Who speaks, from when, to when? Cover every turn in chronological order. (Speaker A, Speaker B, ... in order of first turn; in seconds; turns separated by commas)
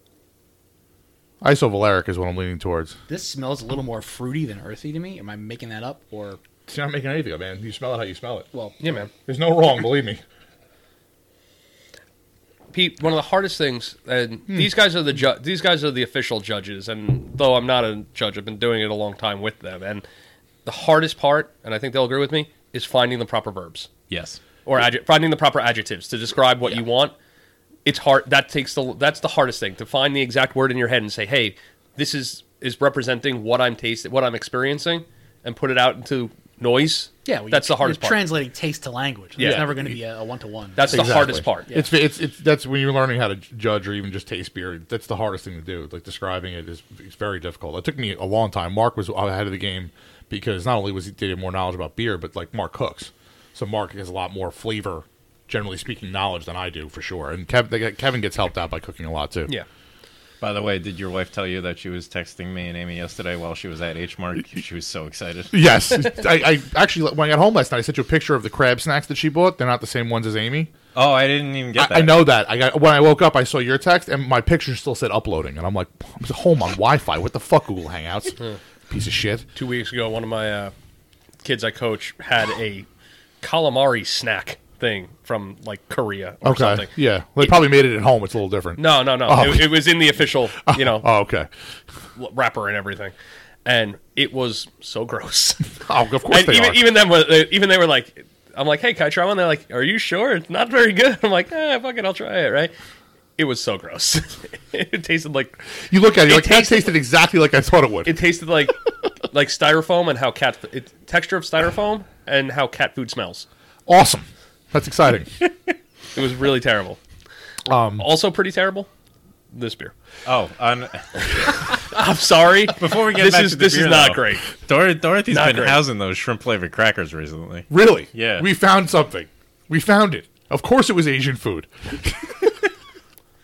Speaker A: 1.4-3.0, Speaker B: 3.1-6.4, Speaker A: 6.7-8.5, Speaker B: 8.5-8.8, Speaker C: 8.8-9.1, Speaker A: 9.2-10.2, Speaker C: 12.7-20.0, Speaker C: 20.6-23.9, Speaker D: 24.1-24.4, Speaker C: 24.6-27.1, Speaker C: 27.8-38.3, Speaker B: 37.2-41.9, Speaker C: 39.4-39.8, Speaker A: 39.4-39.9, Speaker C: 40.8-41.7, Speaker A: 40.9-59.5, Speaker D: 60.4-65.5, Speaker A: 65.5-70.7, Speaker D: 70.9-72.3, Speaker A: 71.7-79.5, Speaker C: 79.5-80.7, Speaker C: 81.4-82.9, Speaker C: 83.4-86.9, Speaker A: 86.4-90.0, Speaker C: 88.8-91.1, Speaker A: 90.6-91.5, Speaker C: 92.2-93.1, Speaker C: 93.6-95.7, Speaker A: 95.8-96.8, Speaker C: 96.3-102.7, Speaker C: 103.4-105.6, Speaker A: 105.9-108.2, Speaker C: 106.2-106.9, Speaker C: 108.0-108.8, Speaker C: 109.3-113.5, Speaker A: 113.9-115.3, Speaker C: 116.1-117.0, Speaker A: 117.7-118.1, Speaker C: 118.0-118.9, Speaker C: 119.5-119.9, Speaker D: 120.2-121.7, Speaker C: 121.7-124.5, Speaker D: 122.7-128.5, Speaker C: 125.3-125.8, Speaker A: 127.7-132.5